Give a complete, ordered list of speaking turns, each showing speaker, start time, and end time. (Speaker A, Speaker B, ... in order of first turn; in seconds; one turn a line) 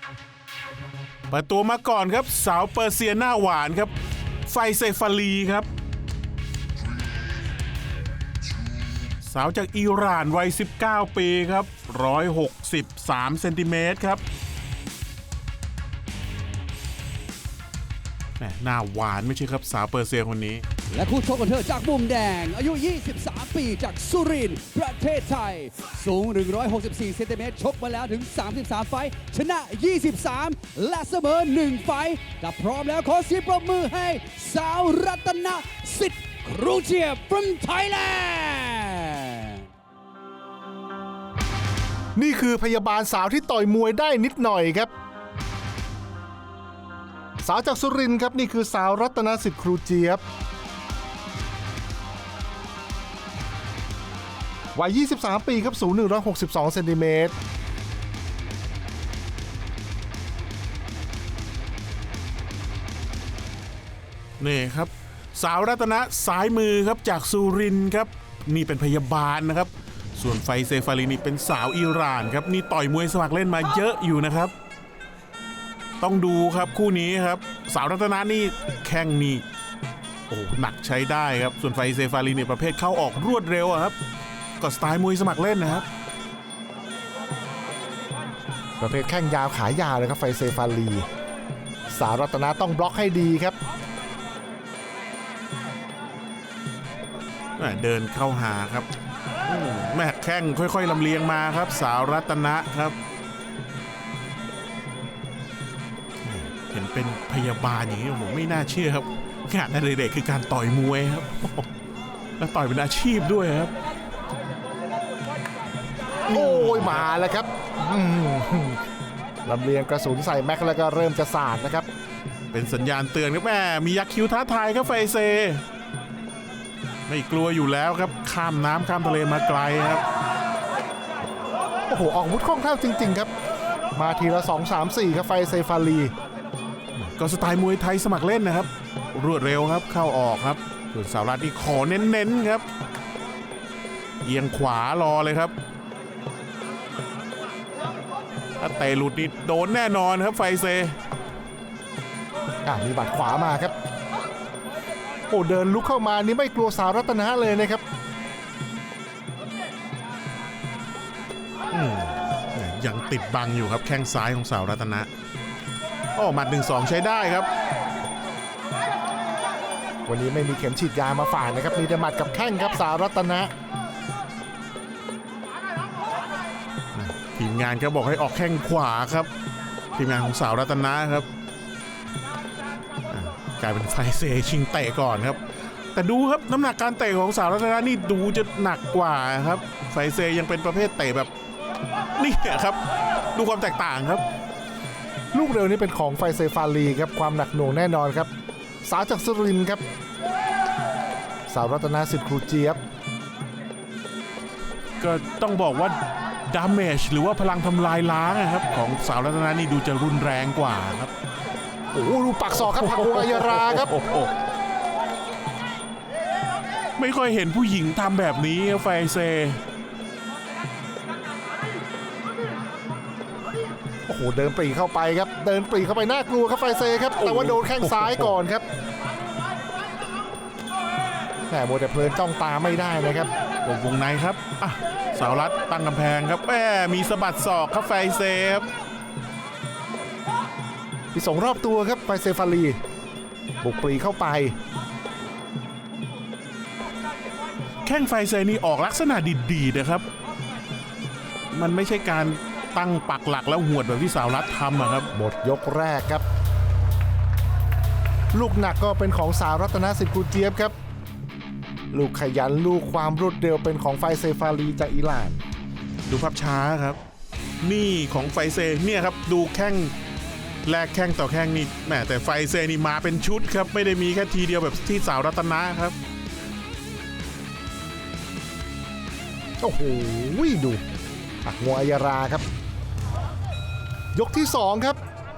Speaker A: 1.3-3.9
Speaker A: 4.5-5.7
Speaker A: 9.3-14.2
Speaker A: 18.4-20.6
Speaker B: 20.9-39.6
Speaker C: 42.1-44.9
Speaker C: 47.4-50.2
Speaker C: 54.8-57.4
Speaker A: 64.4-74.5
Speaker A: 76.0-79.4
Speaker A: 80.3-84.0
Speaker A: 84.6-85.9
Speaker C: 88.8-91.1
Speaker C: 91.9-93.6
Speaker A: 97.6-98.9
Speaker A: 99.5-103.0
Speaker A: 106.2-111.7
Speaker A: 112.4-113.7
Speaker A: 116.3-117.1
Speaker C: 116.3-118.8
Speaker C: 119.5-121.9
Speaker A: 122.5-125.6
Speaker A: 127.1-130.0
Speaker C: 131.9-133.3
Speaker C: 133.9-136.1
Speaker A: 136.9-142.7
Speaker A: 144.2-145.5
Speaker A: 148.6-151.0
Speaker C: 152.7-153.7
Speaker C: 155.3-157.8
Speaker A: 161.7-165.1
Speaker A: 166.2-167.5
Speaker C: 170.1-173.5
Speaker A: 176.9-179.3
Speaker A: 180.0-181.3
Speaker A: 183.1-185.4
Speaker A: 185.9-191.3
Speaker A: 192.2-192.8
Speaker A: 193.3-194.2
Speaker C: 195.3-198.3
Speaker C: 198.8-199.8
Speaker C: 201.5-202.8
Speaker A: 205.0-211.1
Speaker C: 211.9-213.9
Speaker A: 212.5-214.3
Speaker A: 217.0-219.6
Speaker C: 224.1-228.7
Speaker A: 227.2-228.4
Speaker C: 231.5-233.3
Speaker A: 233.6-238.7
Speaker C: 241.1-242.8
Speaker C: 243.6-244.6
Speaker A: 247.8-250.1
Speaker A: 251.5-255.1
Speaker C: 255.1-256.2
Speaker C: 258.3-260.7
Speaker C: 261.9-265.4
Speaker A: 266.1-267.0
Speaker A: 267.6-269.9
Speaker A: 270.6-275.9
Speaker C: 279.6-280.8
Speaker C: 281.4-282.4
Speaker C: 284.1-285.0